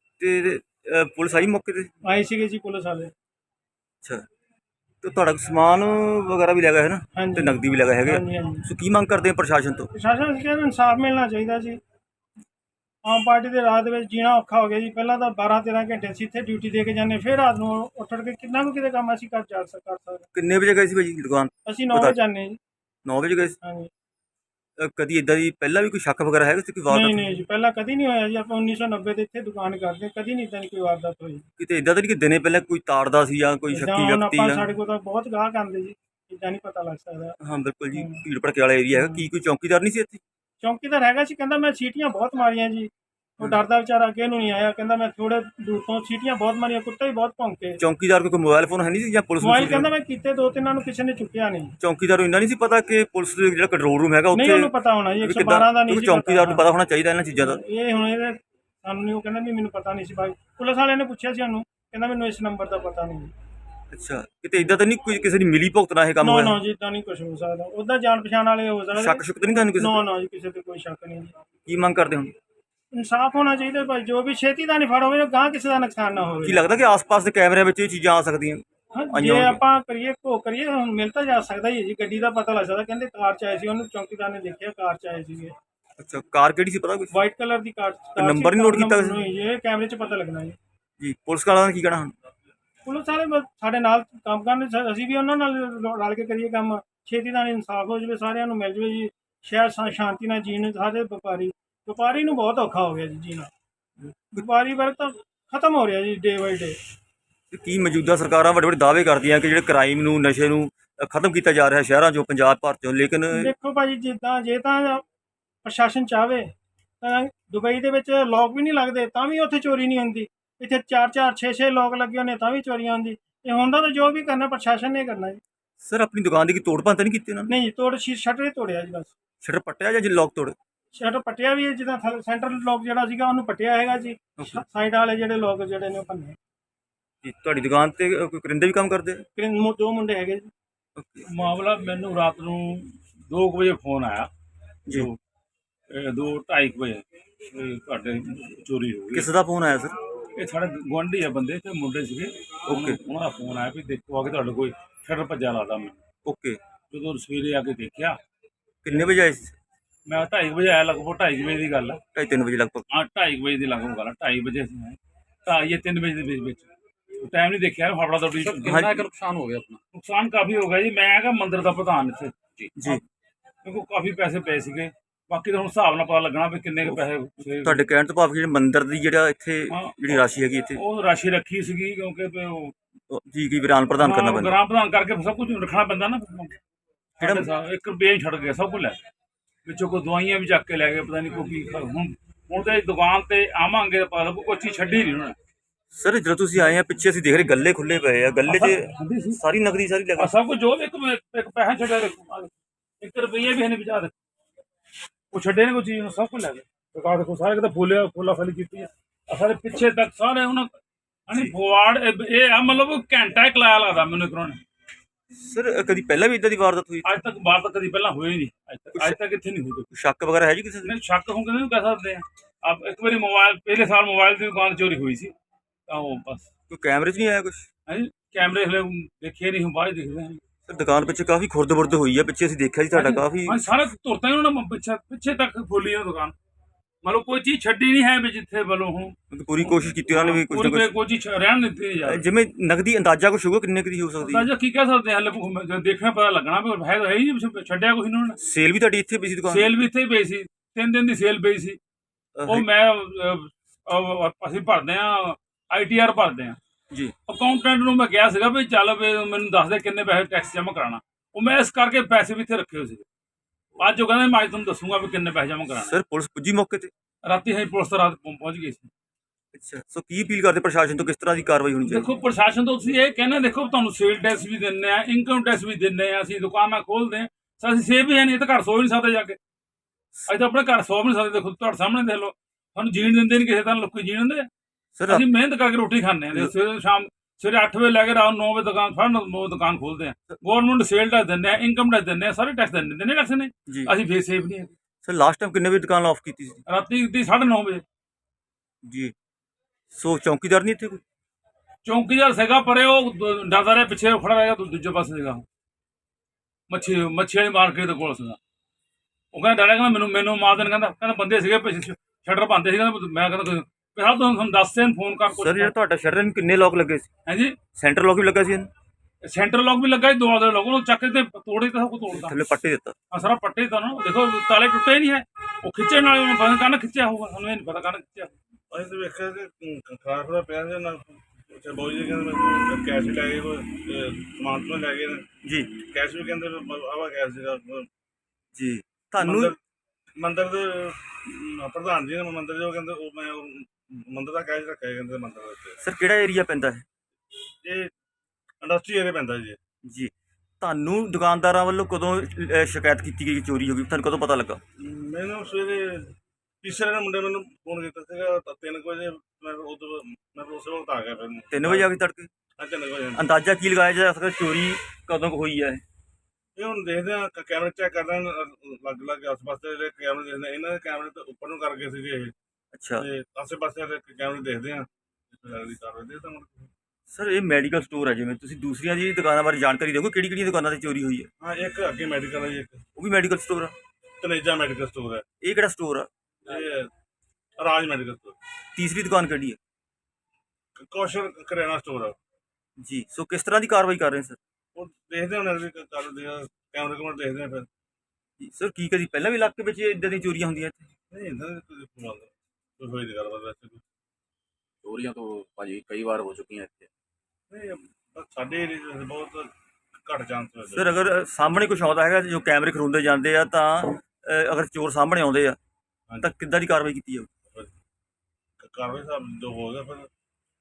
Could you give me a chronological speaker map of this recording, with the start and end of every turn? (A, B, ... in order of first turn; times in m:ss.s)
0:00.2-0:01.9 A
0:02.0-0:03.1 B
0:05.0-0:09.9 A
0:07.2-0:08.6 B
0:09.9-0:11.8 B
0:13.0-0:20.3 B
0:20.3-0:22.2 A
0:21.7-0:22.6 B
0:23.0-0:23.6 A
0:23.6-0:23.9 B
0:24.8-0:27.4 A
0:26.9-0:31.4 B
0:31.6-0:34.7 A
0:33.7-0:37.4 B
0:37.4-0:40.2 A
0:38.0-0:38.2 B
0:38.9-0:39.2 B
0:40.6-0:47.8 B
0:47.8-0:49.9 A
0:49.4-0:51.8 B
0:51.8-0:57.6 A
0:54.3-0:56.6 B
0:57.4-1:03.3 B
1:03.9-1:06.6 A
1:06.2-1:11.4 B
1:08.9-1:10.0 A
1:11.7-1:12.3 A
1:12.9-1:16.7 B
1:16.4-1:19.6 A
1:18.9-1:25.5 B
1:26.0-1:27.2 A
1:27.1-1:30.6 B
1:28.2-1:29.2 A
1:31.0-1:32.1 A
1:32.8-1:43.5 B
1:44.4-1:46.8 B
1:47.5-1:53.5 A
1:53.3-1:55.0 B
1:55.6-1:56.5 B
1:57.0-2:05.4 B
2:05.8-2:07.5 A
2:07.5-2:09.1 B
2:09.4-2:10.6 A
2:11.0-2:16.4 B
2:17.2-2:19.3 A
2:19.4-2:20.5 B
2:21.0-2:21.3 A
2:21.3-2:24.3 C
2:24.9-2:25.2 C
2:25.9-2:29.3 C
2:29.1-2:30.0 A
2:30.4-2:36.0 C
2:32.7-2:33.0 A
2:36.2-2:36.6 A
2:36.9-2:38.2 C
2:38.8-2:39.6 A
2:40.1-2:42.0 C
2:42.1-2:42.8 A
2:42.9-2:48.9 C
2:48.4-2:49.8 D
2:48.6-2:49.0 A
2:49.9-2:53.0 C
2:52.8-2:53.0 A
2:53.6-2:57.8 C
2:57.6-3:00.8 A
2:59.7-3:00.2 C
3:00.8-3:02.8 C
3:03.1-3:04.6 A
3:04.0-3:06.6 C
3:07.2-3:09.0 C
3:07.2-3:07.5 A
3:09.6-3:15.4 C
3:15.9-3:20.3 A
3:18.5-3:19.4 C
3:20.2-3:24.1 C
3:25.3-3:30.7 C
3:31.3-3:34.6 C
3:35.3-3:37.2 A
3:37.0-3:39.9 C
3:39.9-3:40.9 A
3:40.8-3:45.3 C
3:45.9-3:46.5 C
3:46.7-3:47.7 A
3:47.9-3:50.4 C
3:50.7-3:53.6 A
3:52.9-3:56.4 C
3:57.0-4:02.2 C
3:59.3-4:00.9 A
4:02.0-4:04.5 A
4:04.2-4:08.4 C
4:08.4-4:09.8 A
4:09.5-4:11.8 C
4:12.4-4:12.7 A
4:12.5-4:16.6 C
4:17.3-4:23.0 C
4:23.8-4:25.9 C
4:25.7-4:26.9 A
4:27.2-4:28.9 C
4:29.5-4:32.1 A
4:31.9-4:39.4 C
4:40.3-4:44.5 C
4:45.0-4:45.2 A
4:45.1-4:54.7 C
4:55.0-4:56.6 A
4:56.7-4:57.8 C
4:58.9-4:59.1 A
4:59.9-5:01.0 A
5:01.8-5:05.4 C
5:06.7-5:08.4 C
5:09.3-5:15.7 C
5:15.3-5:17.1 A
5:17.3-5:17.6 C
5:17.8-5:18.7 A
5:19.2-5:22.4 C
5:22.1-5:23.0 A
5:23.1-5:28.3 C
5:28.7-5:37.9 E
5:35.4-5:35.7 A
5:38.6-5:39.6 A
5:39.2-5:39.6 E
5:40.2-5:45.8 E
5:45.8-5:46.8 A
5:47.6-5:47.9 E
5:48.6-5:49.6 E
5:49.8-5:54.6 A
5:54.8-6:01.9 E
6:01.5-6:02.3 A
6:02.6-6:03.2 E
6:03.2-6:05.8 A
6:06.6-6:12.3 E
6:12.8-6:13.0 A
6:13.0-6:16.7 E
6:17.1-6:21.3 A
6:21.4-6:22.8 E
6:23.0-6:23.8 A
6:24.2-6:25.3 E
6:25.4-6:26.1 A
6:26.4-6:26.9 E
6:27.6-6:28.4 E
6:28.8-6:29.6 A
6:30.8-6:32.2 E
6:32.8-6:34.4 A
6:34.8-6:37.7 E
6:38.4-6:40.9 A
6:41.1-6:43.8 E
6:44.8-6:46.9 D
6:47.5-6:49.5 E
6:50.0-6:50.9 E
6:50.7-6:55.6 A
6:56.2-6:57.3 A
6:58.6-7:00.1 E